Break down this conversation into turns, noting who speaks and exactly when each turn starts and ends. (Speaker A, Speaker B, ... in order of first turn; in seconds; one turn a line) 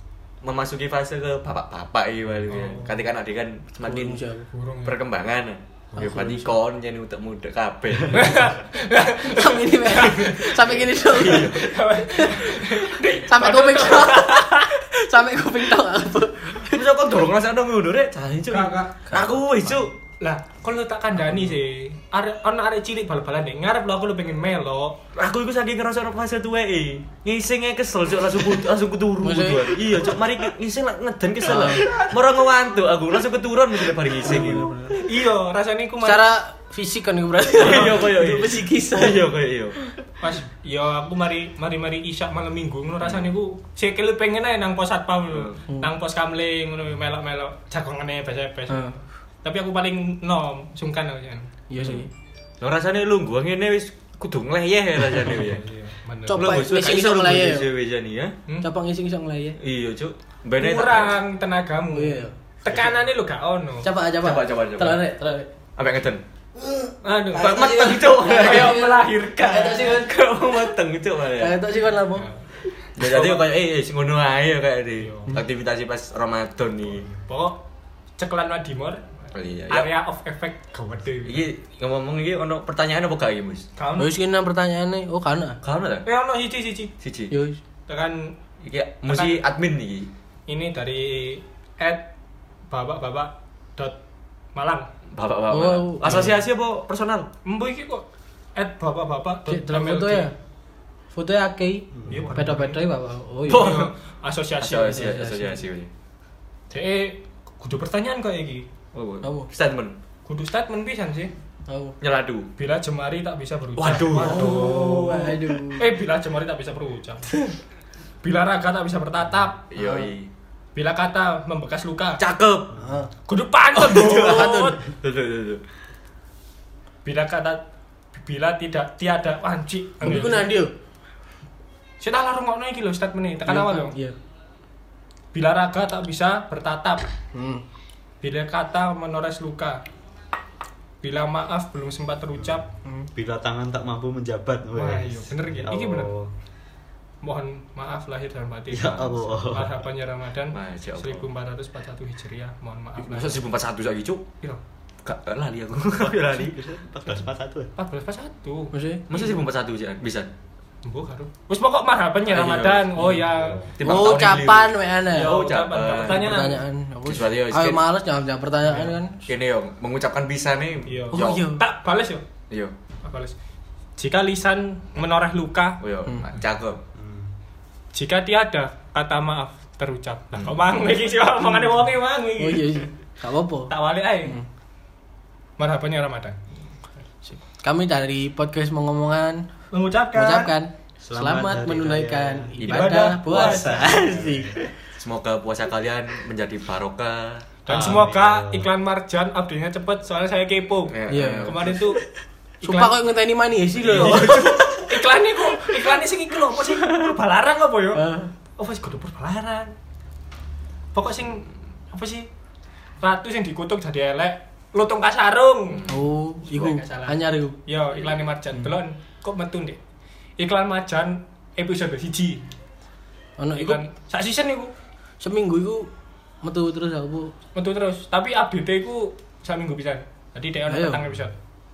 Speaker A: 0.4-4.2
Speaker B: 2.5-3.0
Speaker C: 3.8-4.5
Speaker B: 4.5-5.0
Speaker A: 4.8-8.5
Speaker C: 6.0-6.5
Speaker B: 8.1-10.6
Speaker C: 9.1-12.7
Speaker A: 10.9-11.7
Speaker B: 11.3-14.7
Speaker C: 13.3-16.8
Speaker A: 16.6-19.9
Speaker B: 18.5-19.1
Speaker C: 19.1-19.8
Speaker B: 20.2-25.0
Speaker A: 25.1-34.7
Speaker C: 29.2-29.8
Speaker C: 31.4-32.0
Speaker C: 34.2-35.0
Speaker B: 35.0-36.3
Speaker C: 36.0-39.2
Speaker A: 37.6-39.8
Speaker B: 40.2-51.5
Speaker C: 51.7-52.1
Speaker A: 51.8-52.1
Speaker A: 52.6-55.6
Speaker B: 55.2-56.6
Speaker C: 56.3-57.7
Speaker A: 56.4-58.3
Speaker C: 58.6-59.6
Speaker A: 59.6-61.2
Speaker B: 60.6-63.9
Speaker C: 61.9-62.3
Speaker C: 63.8-65.5
Speaker A: 64.2-65.1
Speaker A: 65.8-66.2
Speaker C: 66.6-70.1
Speaker B: 67.0-70.0
Speaker A: 67.3-68.9
Speaker A: 69.8-71.6
Speaker C: 71.4-72.3
Speaker B: 72.2-72.5
Speaker A: 73.0-77.1
Speaker B: 73.0-73.5
Speaker B: 75.0-75.4
Speaker B: 77.1-77.6
Speaker B: 78.2-79.0
Speaker A: 79.3-79.9
Speaker B: 79.7-81.5
Speaker A: 81.2-83.7
Speaker B: 83.8-84.1
Speaker C: 84.0-85.6
Speaker A: 85.6-86.1
Speaker B: 86.0-86.9
Speaker A: 87.0-87.3
Speaker C: 87.3-87.6
Speaker B: 87.9-88.3
Speaker A: 88.6-90.1
Speaker B: 89.1-89.5
Speaker B: 90.5-92.1
Speaker B: 92.7-94.0
Speaker B: 94.5-94.9
Speaker A: 95.1-97.3
Speaker C: 95.5-96.3
Speaker B: 97.5-100.3
Speaker C: 99.5-100.3
Speaker C: 101.1-103.8
Speaker D: 101.9-102.3
Speaker B: 102.1-102.8
Speaker A: 103.5-103.9
Speaker B: 103.5-105.1
Speaker A: 104.6-105.9
Speaker C: 105.0-105.6
Speaker B: 106.7-108.7
Speaker A: 108.9-110.0
Speaker C: 109.2-109.5
Speaker B: 110.3-111.3
Speaker C: 111.7-112.0
Speaker A: 112.0-112.5
Speaker B: 112.6-117.3
Speaker A: 113.8-115.3
Speaker C: 114.1-115.9
Speaker B: 118.2-119.7
Speaker A: 119.7-120.3
Speaker C: 119.8-120.1
Speaker B: 120.8-122.2
Speaker A: 122.2-122.7
Speaker C: 122.8-123.1
Speaker B: 123.3-124.8
Speaker A: 123.8-125.6
Speaker C: 124.1-124.8
Speaker B: 127.0-127.6
Speaker B: 128.1-130.5
Speaker C: 130.0-130.7
Speaker B: 132.0-133.9
Speaker C: 133.5-134.2
Speaker B: 135.3-137.1
Speaker C: 137.3-137.6
Speaker B: 138.2-139.8
Speaker B: 141.0-142.7
Speaker D: 143.1-146.3
Speaker B: 144.7-146.1
Speaker B: 147.2-153.4
Speaker D: 148.7-149.8
Speaker A: 150.5-151.3
Speaker A: 153.0-154.3
Speaker A: 155.0-156.6
Speaker D: 156.0-157.7
Speaker B: 157.8-159.3
Speaker C: 158.7-159.1
Speaker A: 159.1-160.3
Speaker B: 160.8-163.6
Speaker A: 162.3-163.1
Speaker D: 163.3-163.7
Speaker A: 163.8-167.8
Speaker C: 163.8-165.4
Speaker B: 165.1-166.6
Speaker C: 166.0-169.2
Speaker B: 168.6-168.9
Speaker A: 169.3-171.5
Speaker B: 170.9-172.2
Speaker C: 171.1-171.6
Speaker B: 173.0-173.3
Speaker B: 174.0-175.8
Speaker A: 175.8-176.8
Speaker D: 176.9-177.3
Speaker B: 177.9-182.7
Speaker C: 182.4-183.7
Speaker B: 183.7-184.4
Speaker B: 185.6-186.4
Speaker C: 187.3-189.5
Speaker B: 189.7-190.5
Speaker C: 190.1-194.6
Speaker D: 191.0-192.5
Speaker A: 192.6-193.9
Speaker B: 192.7-193.9
Speaker D: 193.5-194.7
Speaker A: 195.0-197.4
Speaker B: 197.7-202.0
Speaker D: 197.7-198.7
Speaker A: 200.9-201.8
Speaker C: 201.1-202.0
Speaker B: 202.6-202.9
Speaker C: 202.6-204.7
Speaker B: 203.8-208.0
Speaker A: 203.9-204.8
Speaker C: 207.9-208.3
Speaker B: 208.6-209.7
Speaker B: 210.9-212.3
Speaker B: 213.0-215.8
Speaker A: 215.7-216.8
Speaker C: 215.9-217.6
Speaker B: 216.5-219.8
Speaker B: 220.4-222.4
Speaker C: 223.4-223.8
Speaker B: 223.6-224.7
Speaker C: 225.2-225.9
Speaker C: 226.4-227.3
Speaker B: 227.6-231.3
Speaker C: 230.7-231.1